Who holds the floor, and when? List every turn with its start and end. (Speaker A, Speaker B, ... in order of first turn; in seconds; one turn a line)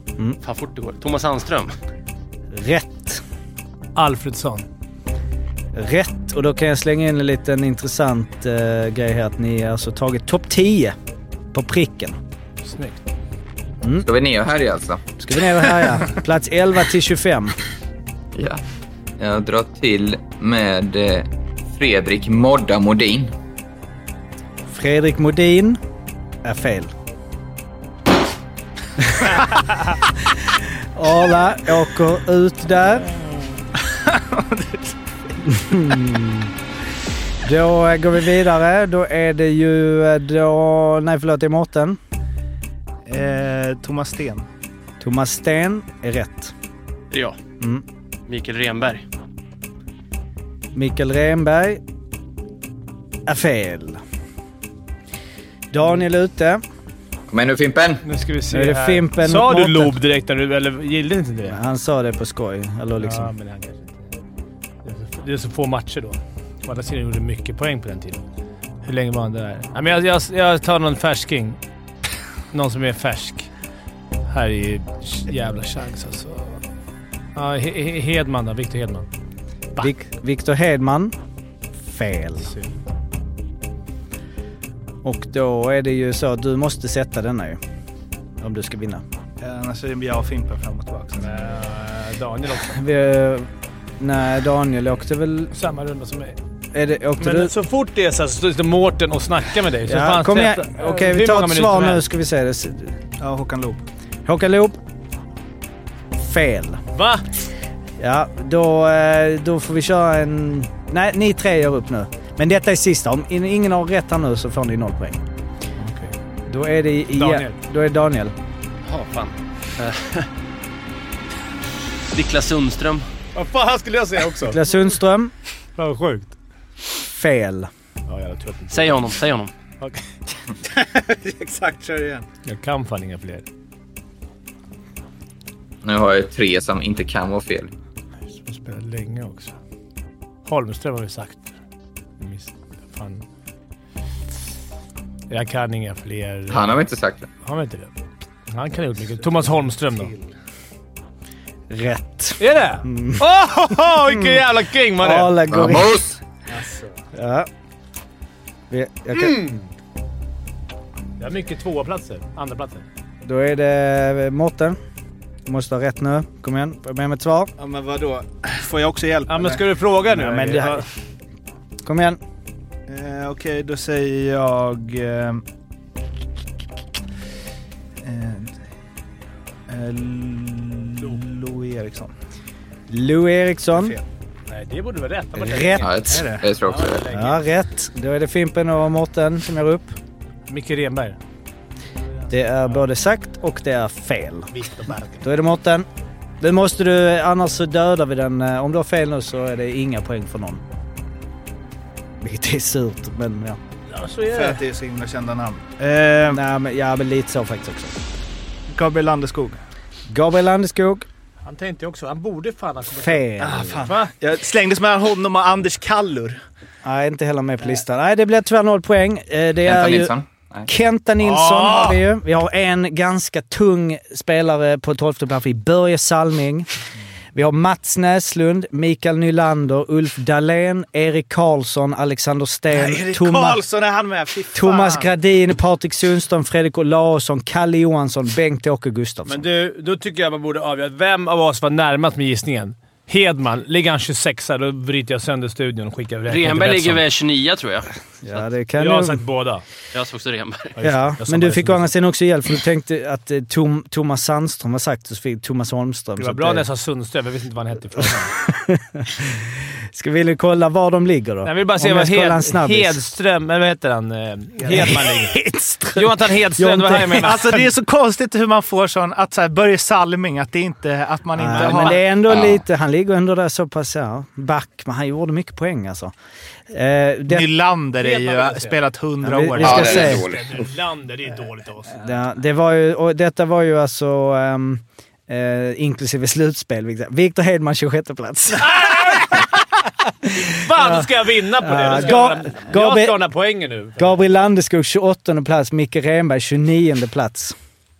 Speaker A: 0.4-1.7
Speaker B: 2.5-3.2
Speaker C: 4.0-4.6
Speaker B: 5.7-10.9
Speaker B: 11.5-12.2
Speaker C: 12.6-13.0
Speaker D: 14.0-15.0
Speaker B: 15.2-17.5
Speaker D: 18.3-18.6
Speaker D: 19.2-23.3
Speaker B: 24.7-25.8
Speaker B: 26.4-26.9
Speaker B: 30.9-33.1
Speaker E: 33.8-35.0
Speaker B: 35.4-36.5
Speaker B: 37.4-42.0
Speaker E: 43.1-44.4
Speaker B: 45.0-46.5
Speaker A: 47.1-47.4
Speaker A: 48.3-49.0
Speaker B: 50.7-51.8
Speaker B: 53.3-54.0
Speaker B: 55.7-56.6
Speaker D: 57.3-58.0
Speaker C: 58.0-61.6
Speaker B: 58.5-59.9
Speaker B: 61.5-63.3
Speaker C: 63.0-63.9
Speaker C: 64.8-68.2
Speaker C: 68.8-71.6
Speaker C: 72.5-73.5
Speaker C: 74.3-76.6
Speaker C: 77.3-79.1
Speaker B: 79.8-81.1
Speaker B: 81.8-82.5
Speaker B: 85.0-87.6
Speaker B: 88.4-89.0
Speaker E: 89.4-91.4
Speaker C: 91.2-92.8
Speaker B: 92.7-93.5
Speaker B: 94.0-95.5
Speaker C: 95.5-96.4
Speaker B: 96.7-97.5
Speaker C: 97.2-102.0
Speaker B: 99.8-103.0
Speaker E: 103.2-103.8
Speaker B: 104.2-104.8
Speaker B: 106.1-106.8
Speaker C: 106.9-107.2
Speaker B: 108.0-115.2
Speaker B: 116.5-118.3
Speaker C: 117.1-117.5
Speaker A: 118.8-120.2
Speaker A: 122.1-123.0
Speaker C: 123.3-124.6
Speaker B: 124.4-125.3
Speaker C: 125.8-126.3
Speaker B: 127.0-127.7
Speaker C: 128.1-129.2
Speaker A: 128.7-129.5
Speaker E: 130.7-132.2
Speaker C: 132.4-133.4
Speaker D: 135.8-137.7
Speaker C: 138.4-139.5
Speaker C: 140.4-141.5
Speaker C: 142.2-143.2
Speaker C: 145.3-146.7
Speaker D: 146.5-147.3
Speaker C: 147.4-147.9
Speaker C: 148.5-150.1
Speaker E: 149.9-150.2
Speaker B: 151.7-153.3
Speaker C: 152.4-155.4
Speaker B: 153.9-154.4
Speaker B: 155.0-156.2
Speaker D: 155.5-156.1
Speaker E: 156.5-156.9
Speaker B: 157.1-157.5
Speaker B: 158.7-159.6
Speaker C: 159.1-159.7
Speaker C: 161.2-162.8
Speaker B: 163.2-164.8
Speaker B: 165.4-167.5
Speaker E: 167.6-169.6
Speaker C: 169.3-170.9
Speaker B: 170.1-170.8
Speaker B: 171.8-172.2
Speaker E: 172.9-175.4
Speaker E: 178.0-178.5
Speaker E: 179.7-182.1
Speaker B: 182.9-184.0
Speaker E: 183.7-184.0
Speaker C: 184.5-187.4
Speaker B: 185.3-185.8
Speaker D: 185.8-187.0
Speaker E: 186.0-186.4
Speaker B: 187.1-189.9
Speaker C: 190.5-191.2
Speaker B: 192.3-194.5
Speaker C: 194.5-195.2
Speaker B: 195.2-195.8
Speaker B: 196.4-200.6
Speaker B: 202.2-203.6
Speaker C: 203.9-204.6
Speaker E: 204.3-206.4
Speaker B: 206.3-208.0
Speaker E: 208.7-209.6
Speaker B: 210.1-211.1
Speaker C: 211.4-214.1
Speaker B: 213.0-213.9
Speaker E: 213.4-216.4
Speaker B: 216.8-220.1
Speaker D: 219.6-220.7
Speaker B: 220.7-226.7
Speaker C: 221.2-222.0
Speaker B: 227.3-233.6
Speaker E: 232.7-235.1
Speaker B: 234.5-239.4
Speaker C: 239.2-247.0
Speaker A: 246.3-248.5
Speaker B: 248.2-249.2
Speaker C: 248.8-249.6
Speaker A: 249.9-250.8
Speaker C: 250.8-251.9
Speaker B: 250.8-256.7
Speaker C: 256.2-258.3
Speaker B: 258.0-263.0
Speaker C: 261.4-265.4
Speaker B: 264.6-267.6
Speaker C: 265.9-267.6
Speaker E: 267.2-272.0
Speaker B: 271.4-276.1
Speaker C: 271.4-272.0
Speaker D: 272.3-272.6
Speaker B: 276.7-277.5
Speaker E: 277.3-280.1
Speaker C: 278.0-278.9
Speaker B: 279.2-280.2
Speaker C: 279.5-282.0
Speaker D: 279.6-280.7
Speaker B: 281.9-289.6
Speaker C: 288.6-289.5
Speaker B: 290.2-291.1
Speaker C: 290.3-294.2
Speaker B: 291.6-293.2
Speaker B: 294.0-297.5